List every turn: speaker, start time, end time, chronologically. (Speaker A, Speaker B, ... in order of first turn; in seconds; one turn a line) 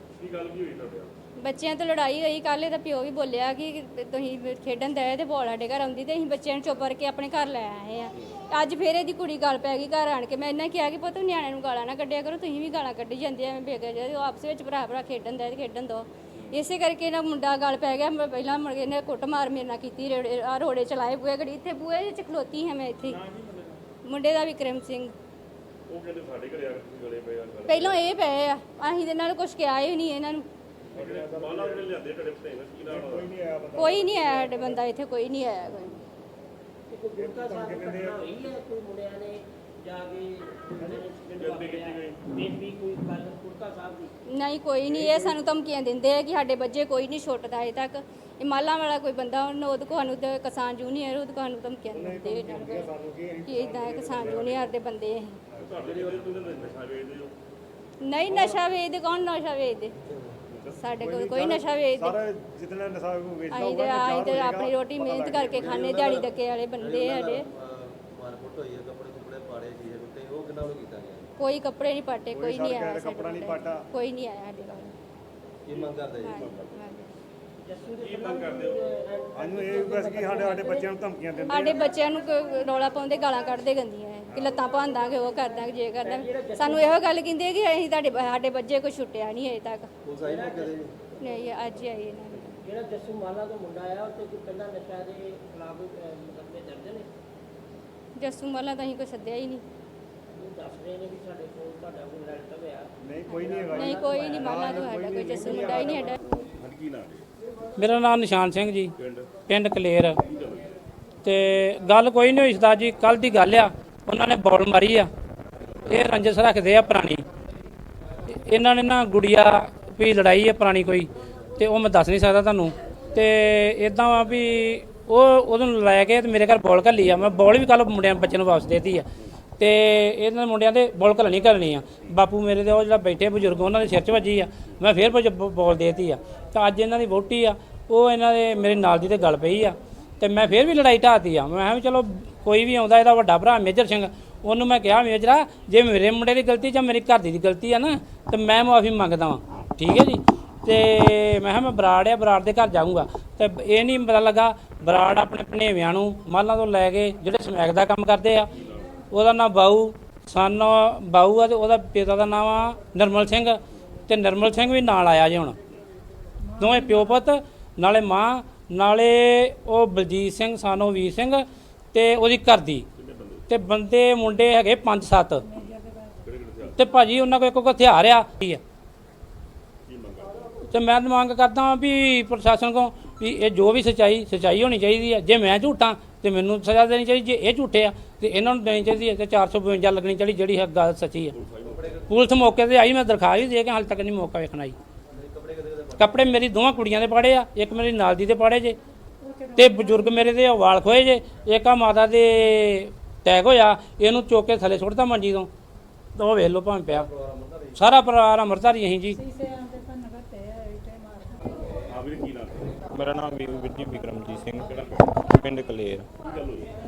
Speaker A: 0.1-1.1
Speaker B: 1.4-23.2
Speaker A: 16.3-16.6
Speaker A: 23.1-23.8
Speaker B: 24.0-25.1
Speaker A: 25.9-28.1
Speaker B: 27.7-30.4
Speaker C: 30.9-32.0
Speaker A: 30.9-33.4
Speaker C: 32.8-34.8
Speaker B: 33.8-36.0
Speaker D: 36.9-44.1
Speaker C: 37.1-38.5
Speaker C: 40.8-41.1
Speaker A: 41.3-42.3
Speaker B: 44.4-52.9
Speaker C: 44.8-45.5
Speaker C: 51.9-54.7
Speaker B: 53.5-55.4
Speaker C: 55.5-55.8
Speaker A: 55.6-57.3
Speaker E: 55.7-56.8
Speaker B: 58.0-59.9
Speaker C: 58.3-58.6
Speaker E: 60.0-60.4
Speaker C: 60.7-65.8
Speaker B: 60.8-62.2
Speaker B: 63.5-67.5
Speaker E: 65.5-71.3
Speaker B: 71.4-75.0
Speaker C: 72.3-73.9
Speaker E: 75.7-76.6
Speaker A: 75.7-76.9
Speaker B: 76.2-77.1
Speaker D: 77.6-80.9
Speaker A: 78.0-78.9
Speaker C: 79.3-81.9
Speaker B: 81.5-89.9
Speaker C: 84.3-84.7
Speaker D: 86.0-87.1
Speaker E: 90.0-90.9
Speaker D: 90.2-91.6
Speaker B: 91.2-92.6
Speaker D: 92.6-97.1
Speaker B: 98.2-99.6
Speaker D: 100.3-104.6
Speaker C: 103.0-106.5
Speaker B: 103.3-106.2
Speaker A: 106.6-107.3
Speaker F: 107.8-108.9
Speaker A: 109.0-109.3
Speaker F: 109.5-110.2
Speaker A: 110.2-110.7
Speaker F: 111.2-115.1
Speaker F: 115.9-117.2
Speaker F: 118.3-129.1
Speaker F: 129.6-158.5
Speaker A: 158.5-159.0
Speaker F: 159.1-165.6
Speaker F: 166.6-172.8
Speaker A: 173.0-173.5
Speaker F: 173.5-175.4
Speaker A: 175.6-176.8
Speaker F: 176.8-178.6
Speaker A: 179.9-180.5
Speaker F: 180.7-191.3
Speaker A: 191.3-192.0
Speaker E: 191.6-192.1
Speaker F: 192.1-194.8
Speaker E: 195.1-196.2
Speaker F: 196.0-198.8
Speaker F: 199.6-205.5
Speaker F: 206.2-207.1
Speaker E: 206.9-207.8
Speaker F: 207.8-209.2
Speaker A: 211.9-212.8
Speaker G: 212.9-216.1
Speaker A: 214.7-215.2
Speaker A: 216.2-216.7